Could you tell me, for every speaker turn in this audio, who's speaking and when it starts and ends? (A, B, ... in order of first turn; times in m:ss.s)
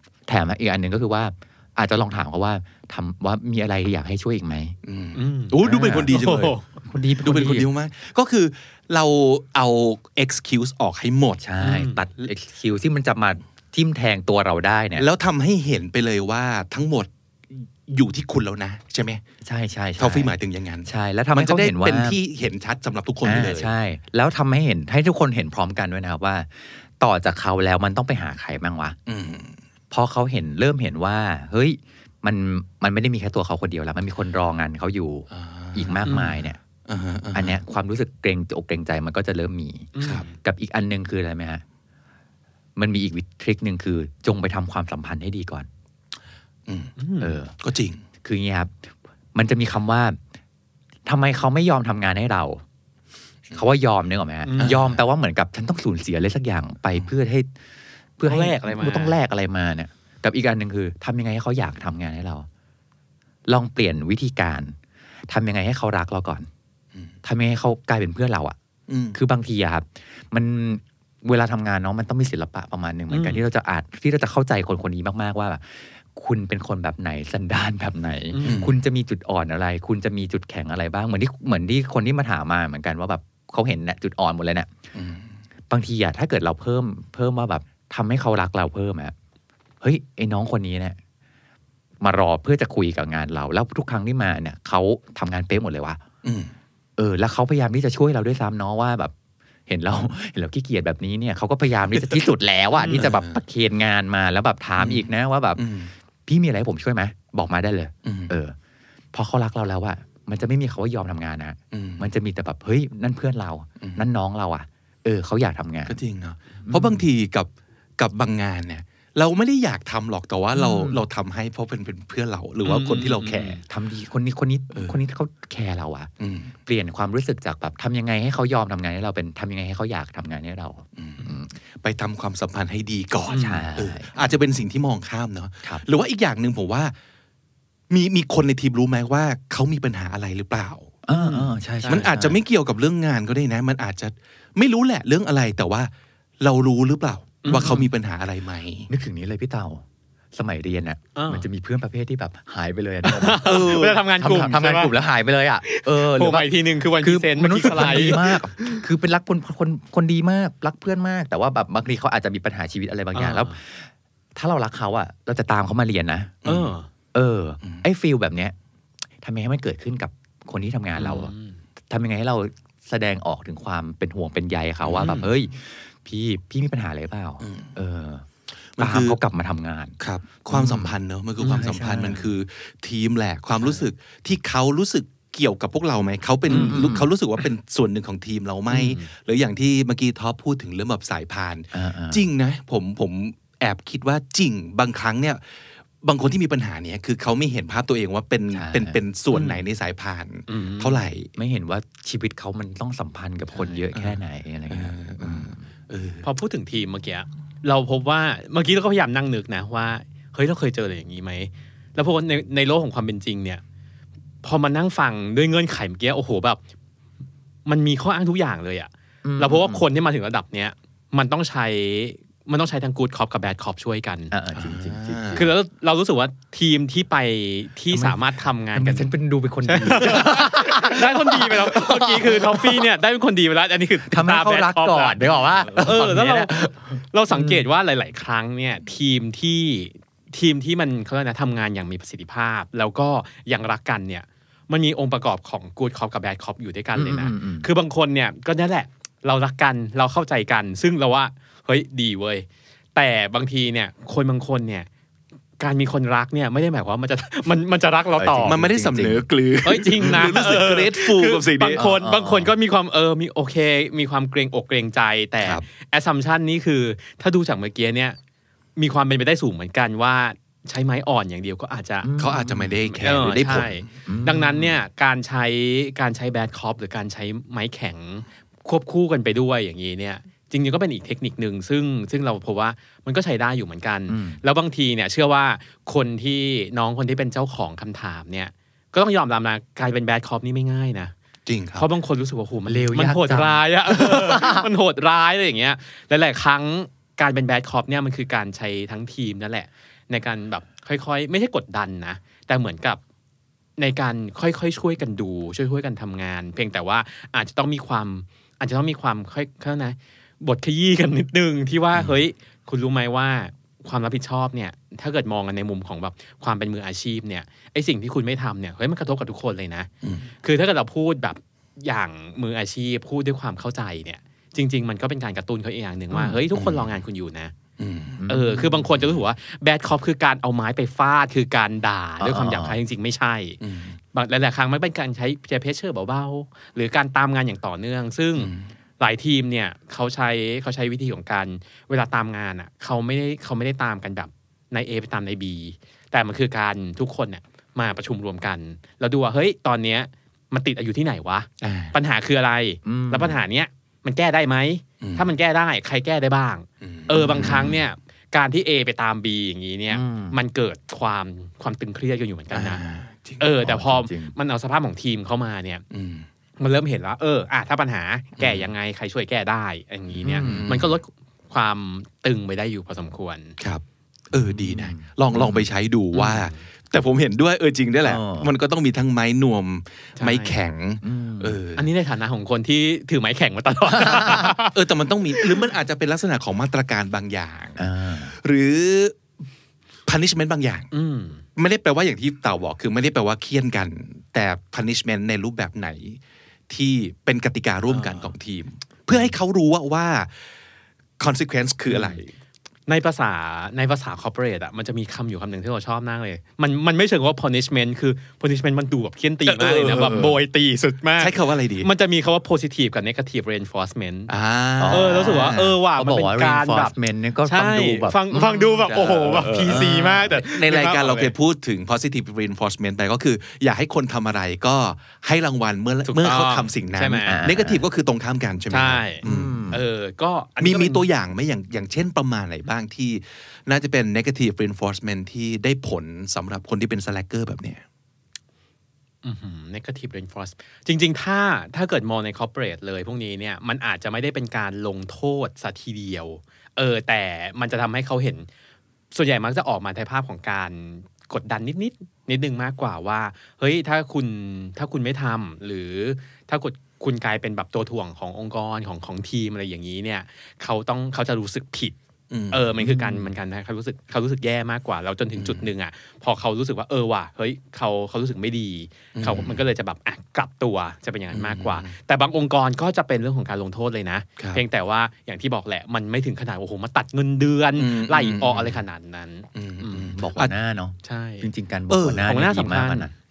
0:00.3-0:04.8 A
0:04.8-0:06.6 B
0:05.2-0:05.6 C
0:05.6-0:06.2 A
0:06.1-0:06.8 C
0:06.8-0:07.7 A
0:07.2-0:11.4 B
0:11.4-0:15.0 A
0:11.6-0:12.0 C
0:15.0-0:19.2 B
0:19.4-0:20.3 A
0:20.0-0:23.7 B
0:20.8-0:22.2 A
0:23.2-0:29.0 A
0:29.1-0:29.6 B
0:29.9-0:36.6 A
0:35.3-0:36.3 B
0:36.0-0:36.4 C
0:36.9-0:37.6 B
0:37.3-0:39.9 A
0:40.0-0:40.3 C
0:40.0-0:40.3 B
0:40.4-0:41.6 A
0:42.8-0:45.7 A
0:46.7-0:47.0 B
0:47.0-0:47.3 C
0:47.2-0:47.6 A
0:47.6-0:48.0 B
0:48.2-0:48.8 A
0:49.3-0:50.2 A
0:51.0-0:52.6 A
0:53.5-0:57.5 A
0:54.4-0:54.8 C
0:54.6-0:55.0 B
0:58.2-1:02.5 A
0:58.3-0:59.2 C
1:03.5-1:04.8 A
1:05.3-1:06.5 A
1:07.2-1:08.6 A
1:08.9-1:09.2 B
1:09.1-1:24.7 A
1:13.1-1:13.4 C
1:18.3-1:18.7 C
1:18.4-1:18.8 B
1:24.9-1:25.3 B
1:25.7-1:29.1 A
1:29.8-1:31.0 A
1:32.0-1:36.0 A
1:36.2-1:36.5 B
1:37.0-1:39.1 A
1:39.7-1:45.6 A
1:42.7-1:43.1 C
1:42.9-1:43.4 B
1:44.8-1:45.9 B
1:46.3-1:48.6 A
1:48.0-1:48.3 B
1:49.1-1:56.0 A
1:51.7-1:52.1 B
1:53.8-1:54.1 B
1:55.9-2:03.6 B
1:56.7-1:57.0 A
2:00.6-2:01.0 C
2:02.6-2:03.6 C
2:03.7-2:06.1 A
2:04.7-2:05.0 B
2:06.2-2:06.5 B
2:06.6-2:11.5 A
2:11.0-2:16.9 B
2:13.3-2:14.3 A
2:17.9-2:20.9 B
2:21.1-2:22.4 A
2:21.1-2:22.1 C
2:21.9-2:28.9 B
2:27.4-2:27.8 C
2:28.9-2:46.5 A
2:31.1-2:31.5 C
2:33.0-2:34.9 C
2:33.4-2:34.0 B
2:35.6-2:38.8 C
2:37.7-2:38.1 B
2:43.1-2:43.5 C
2:46.4-2:46.7 B
2:46.4-2:46.9 C
2:47.1-2:48.6 A
2:49.2-2:51.3 A
2:51.0-2:51.6 C
2:51.9-2:58.3 A
2:54.8-2:55.3 B
2:57.4-2:57.7 B
2:58.8-2:59.2 B
2:58.8-3:02.2 A
3:00.0-3:21.3 B
3:01.4-3:01.8 C
3:06.5-3:06.9 C
3:06.5-3:07.1 A
3:08.7-3:09.1 C
3:11.7-3:12.2 A
3:18.5-3:19.0 A
3:19.3-3:19.6 C
3:20.5-3:21.0 C
3:21.4-3:25.6 A
3:23.5-3:23.9 C
3:23.9-3:26.3 B
3:26.2-3:33.6 C
3:34.4-3:36.6 C
3:37.6-3:44.3 C
3:39.2-3:39.8 A
3:44.3-3:45.6 A
3:44.5-3:45.5 B
3:45.4-3:49.1 C
3:47.9-3:48.2 A
3:48.7-3:52.8 A
3:49.6-4:14.9 C
3:54.1-3:56.7 A
3:57.3-3:57.6 A
4:06.9-4:07.7 A
4:15.6-4:18.6 C
4:18.2-4:19.3 A
4:18.4-4:21.8 B
4:19.6-4:28.2 C
4:21.8-4:22.5 A
4:28.8-4:32.1 C
4:32.0-4:32.7 A
4:32.2-4:33.9 B
4:32.8-4:51.1 C
4:34.1-4:34.8 A
4:44.1-4:44.4 A
4:51.4-4:51.9 B
4:51.8-5:03.0 C
4:52.6-4:54.7 A
5:03.8-5:19.9 C
5:20.0-5:20.3 B
5:20.4-5:27.5 C
5:26.1-5:26.4 A
5:26.5-5:26.9 B
5:27.8-5:28.2 B
5:28.2-5:29.2 A
5:28.3-5:33.6 C
5:32.2-5:32.8 A
5:33.6-5:34.0 B
5:34.1-6:02.8 C
5:38.4-5:38.7 B
5:51.6-5:51.9 B
5:52.8-5:53.4 A
5:55.0-5:55.3 B
5:56.8-5:57.8 B
5:57.3-5:57.7 A
5:59.9-6:00.4 A
6:02.5-6:03.4 B
6:03.4-6:05.8 C
6:03.6-6:04.3 A
6:05.9-6:06.3 B
6:06.6-6:13.6 C
6:08.4-6:08.7 B
6:10.2-6:10.8 A
6:10.3-6:11.0 B
6:13.6-6:21.9 B
6:14.3-6:15.7 A
6:16.1-6:16.6 C
6:18.0-6:18.5 A
6:20.2-6:20.6 C
6:21.0-6:21.6 A
6:21.8-6:24.7 C
6:23.9-6:24.5 A
6:24.7-6:29.2 B
6:27.8-6:28.3 A
6:30.1-6:30.9 B
6:30.9-6:31.4 C
6:31.6-6:40.5 B
6:37.9-6:38.3 C
6:41.2-6:42.2 B
6:41.9-6:42.3 C
6:42.9-6:54.3 C
6:49.4-6:50.4 B
6:51.2-6:51.9 B
6:54.3-6:55.7 B
6:54.8-6:59.6 A
6:54.9-6:56.9 C
6:57.4-7:01.3 C
6:58.9-7:09.6 B
7:06.1-7:07.4 C
7:07.3-7:07.8 A
7:08.7-7:11.0 C
7:09.2-7:09.8 A
7:10.6-7:17.8 B
7:19.2-7:28.5 C
7:29.1-7:42.0 C
7:42.3-7:43.3 B
7:42.5-8:00.2 C
7:45.4-7:45.7 B
7:49.1-7:49.6 B
7:51.3-7:51.9 B
7:54.4-7:54.6 B
7:57.8-7:58.8 B
7:59.6-8:00.5 B
8:00.1-8:03.1 A
8:01.0-8:01.5 C
8:01.9-8:02.3 B
8:02.3-8:03.1 C